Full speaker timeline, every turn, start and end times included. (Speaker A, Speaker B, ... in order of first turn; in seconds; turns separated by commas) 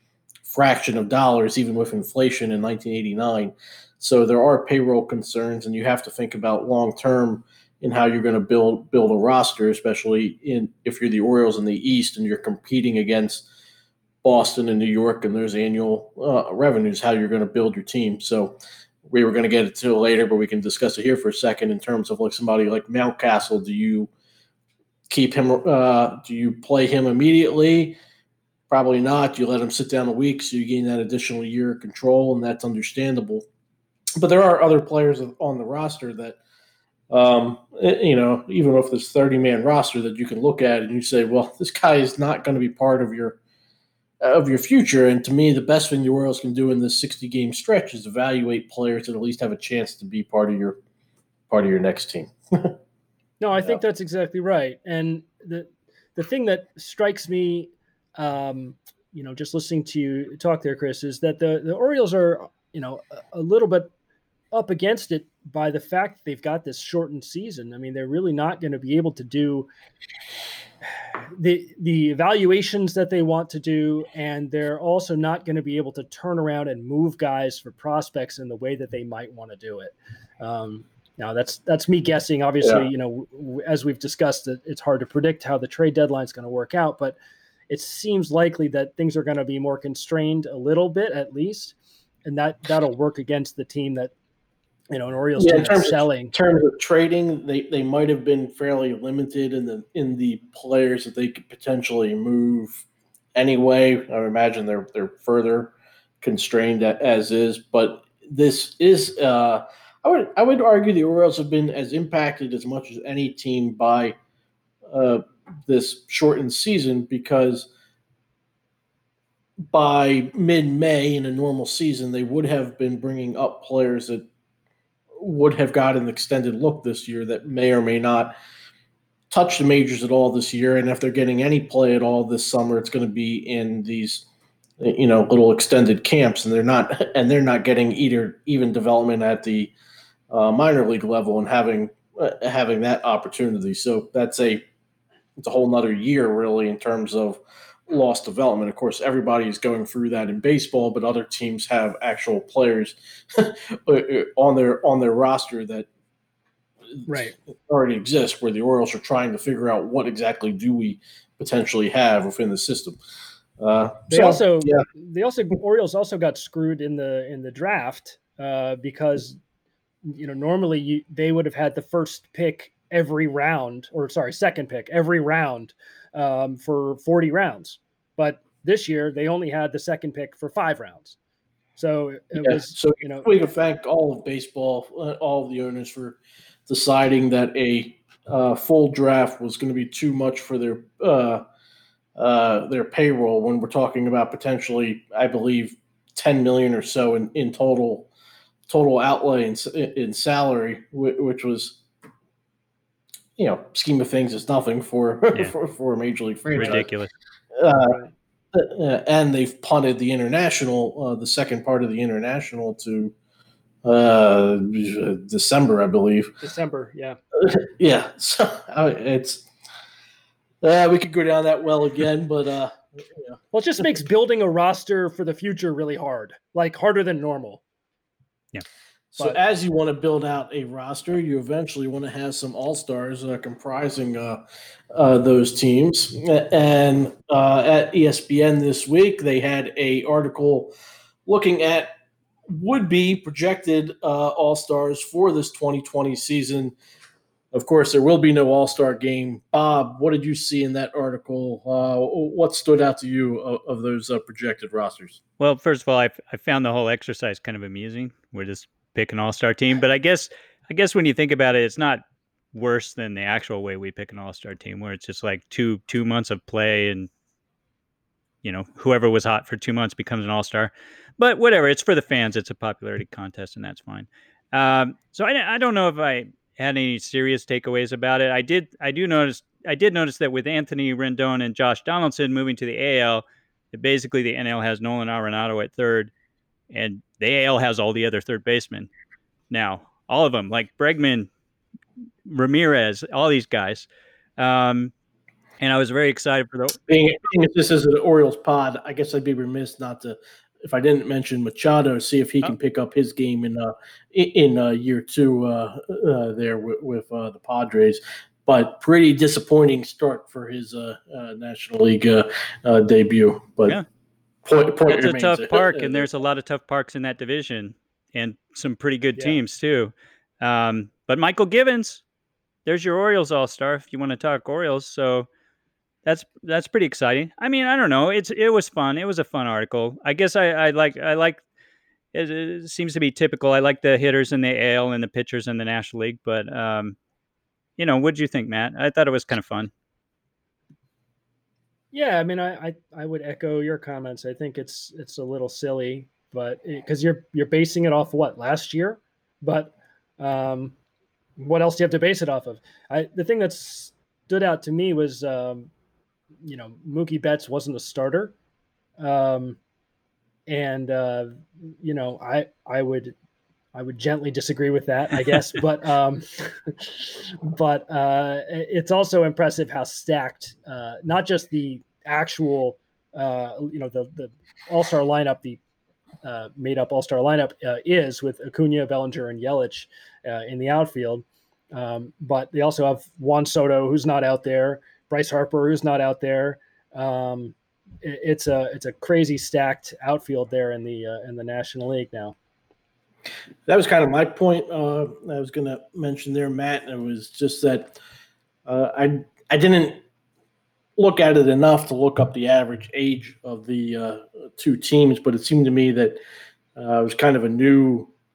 Speaker A: 0.4-13.4, Speaker A: 14.2-24.1, Speaker A: 25.1-28.0, Speaker A: 28.7-33.5, Speaker A: 34.2-36.4, Speaker A: 37.1-43.4, Speaker A: 44.2-50.8, Speaker A: 51.5-52.8, Speaker B: 53.4-63.9, Speaker B: 64.5-69.7, Speaker B: 71.3-87.2, Speaker B: 87.7-94.1, Speaker B: 94.9-96.3, Speaker A: 95.4-114.2, Speaker A: 114.9-117.7, Speaker A: 119.7-124.3, Speaker A: 125.2-128.3, Speaker A: 129.3-134.2, Speaker A: 134.8-139.7, Speaker A: 140.3-144.6, Speaker A: 145.4-155.9, Speaker A: 156.9-163.0, Speaker B: 157.1-157.3, Speaker A: 163.6-164.8, Speaker B: 164.1-169.4, Speaker B: 170.0-181.2, Speaker B: 181.8-183.3, Speaker A: 182.4-191.4, Speaker A: 192.2-198.1, Speaker A: 198.7-201.8, Speaker A: 203.4-206.9, Speaker C: 206.6-207.1, Speaker A: 207.5-208.0, Speaker B: 207.8-208.1, Speaker A: 208.5-213.1, Speaker A: 213.8-216.3, Speaker B: 216.4-217.2, Speaker A: 217.3-219.4, Speaker A: 220.6-223.4, Speaker B: 223.5-227.6, Speaker A: 229.1-240.7, Speaker A: 241.2-241.9, Speaker A: 242.5-246.7, Speaker A: 247.5-255.2, Speaker C: 255.4-267.1, Speaker C: 268.4-286.1, Speaker C: 286.7-288.9, Speaker C: 289.5-291.3, Speaker C: 292.2-293.9, Speaker C: 294.4-294.9, Speaker C: 295.6-296.8, Speaker A: 296.9-313.8, Speaker A: 314.4-316.1, Speaker C: 314.5-322.0, Speaker C: 322.6-325.3, Speaker C: 326.0-331.4, Speaker C: 332.1-337.0, Speaker C: 337.8-339.7, Speaker B: 341.9-350.8, Speaker B: 351.4-355.7, Speaker B: 356.4-358.3, Speaker B: 359.0-359.6, Speaker B: 360.5-363.1, Speaker B: 363.7-375.6, Speaker B: 376.2-392.4, Speaker A: 393.6-398.0, Speaker A: 398.6-400.0, Speaker A: 401.0-406.2, Speaker A: 406.8-408.1